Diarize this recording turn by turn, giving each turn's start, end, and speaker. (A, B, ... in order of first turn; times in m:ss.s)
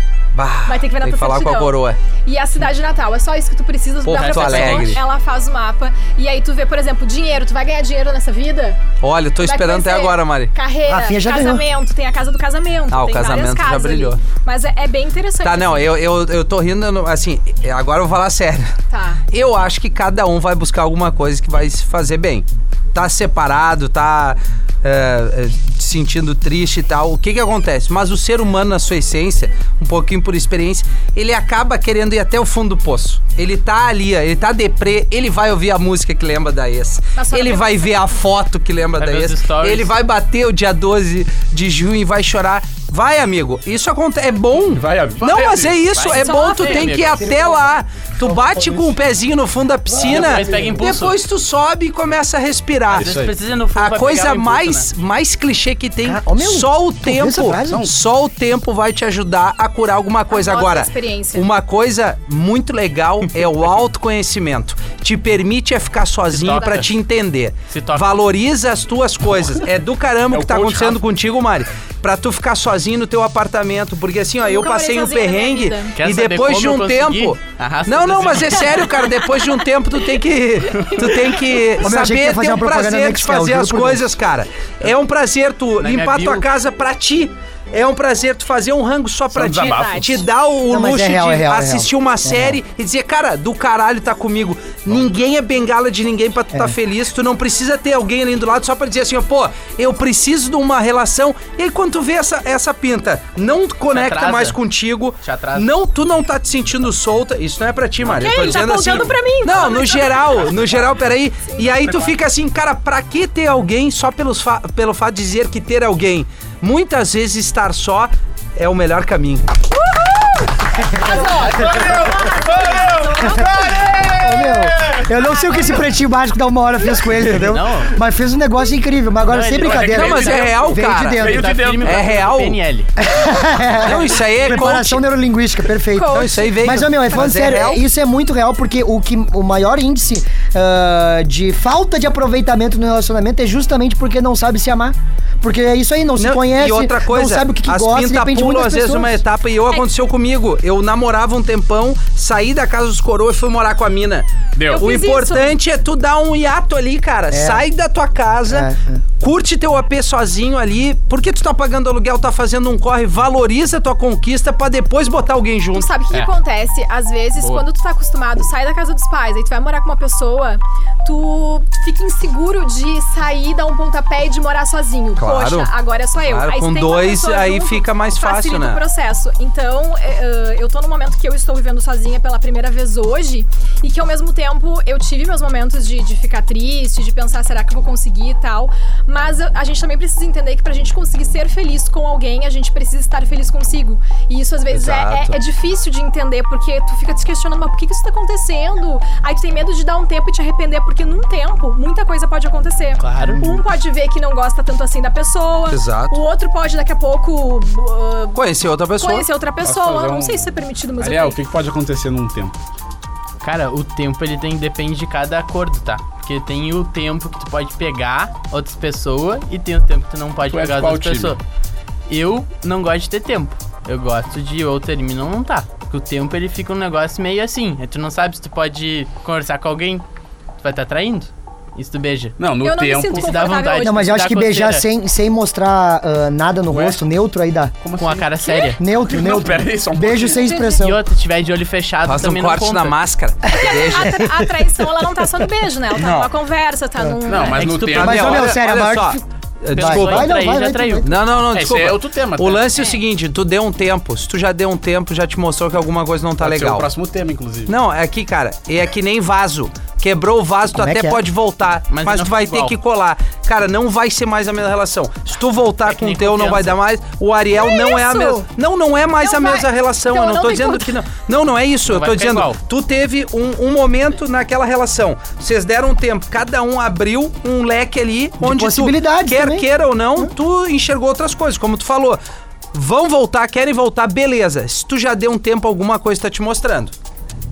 0:00.3-0:02.0 A
0:00.7-0:08.8 B
0:04.0-0:05.0 A
0:04.1-0:05.0 C
0:09.0-0:10.5 A
0:09.4-0:15.9 B
0:10.9-0:11.6 D
0:12.9-0:14.2 A
0:15.4-0:18.7 A
0:18.9-0:19.2 B
0:19.3-0:53.2 A
0:37.2-0:38.0 B
0:39.0-0:39.9 C
0:44.7-0:45.8 E
0:45.9-0:47.2 C
0:46.1-0:47.7 B
0:48.2-0:48.9 D
0:49.9-0:50.7 D
0:50.0-0:51.2 C
0:50.1-0:50.8 E
0:52.9-0:54.9 C
0:53.0-0:53.3 E
0:53.8-1:59.6 A
0:56.0-0:57.9 D
0:57.6-0:57.9 E
1:00.3-1:01.5 B
1:06.3-1:06.9 C
1:07.7-1:08.1 C
1:10.3-1:11.0 E
1:14.4-1:16.0 B
1:16.0-1:19.0 C
1:20.8-1:21.3 B
1:21.8-1:24.1 D
1:25.8-1:26.5 C
1:29.3-1:30.2 E
1:30.7-1:32.6 D
1:43.9-1:44.6 C
1:45.2-1:45.7 C
1:48.1-1:50.6 B
1:59.7-2:03.9 B
2:01.0-2:05.1 E
2:04.2-2:11.5 D
2:05.1-2:05.8 B
2:07.3-2:08.0 C
2:09.3-2:10.1 C
2:09.5-2:12.1 E
2:09.9-2:11.2 A
2:11.2-2:12.9 C
2:11.8-2:12.6 A
2:13.0-2:29.2 D
2:13.7-2:15.1 A
2:15.9-2:17.7 B
2:16.1-2:17.8 A
2:26.2-2:45.9 A
2:34.6-2:34.9 E
2:34.7-2:35.6 B
2:37.3-2:37.6 D
2:38.5-2:39.0 D
2:45.7-3:28.4 B
2:47.4-2:47.6 C
2:55.2-2:55.7 A
2:56.2-2:58.8 A
3:14.7-3:15.4 A
3:23.0-3:23.6 C
3:25.7-3:26.2 A
3:28.4-3:29.3 A
3:29.0-3:31.4 B
3:29.6-3:30.5 E
3:31.0-3:32.6 E
3:33.4-3:41.4 C
3:40.5-3:41.4 E
3:42.1-3:50.0 C
3:50.6-3:52.4 C
3:52.4-3:53.4 E
3:52.6-3:54.1 B
3:53.1-3:54.9 C
3:53.7-3:57.7 D
3:56.7-3:57.0 E
3:57.8-3:58.4 E
3:58.0-3:58.8 C
3:58.5-3:58.7 B
3:58.8-4:01.0 D
3:59.1-4:00.4 E
4:00.4-4:00.9 B
4:00.8-4:03.0 C
4:02.1-4:04.3 A
4:03.5-4:07.7 B
4:04.0-4:04.7 D
4:06.0-4:06.3 A
4:07.3-4:08.6 E
4:07.4-4:08.5 C
4:07.9-4:09.2 D
4:08.0-4:10.3 A
4:09.7-4:11.1 C
4:09.7-4:11.2 D
4:11.0-4:16.9 A
4:11.5-4:12.7 E
4:12.8-4:13.0 B
4:16.4-4:17.7 E
4:17.7-4:42.2 A
4:20.7-4:21.2 D
4:21.9-4:22.8 C
4:25.9-4:26.8 C
4:27.5-4:28.5 B
4:29.2-4:31.0 B
4:31.8-4:32.6 C
4:38.4-4:40.3 D
4:42.7-4:46.9 A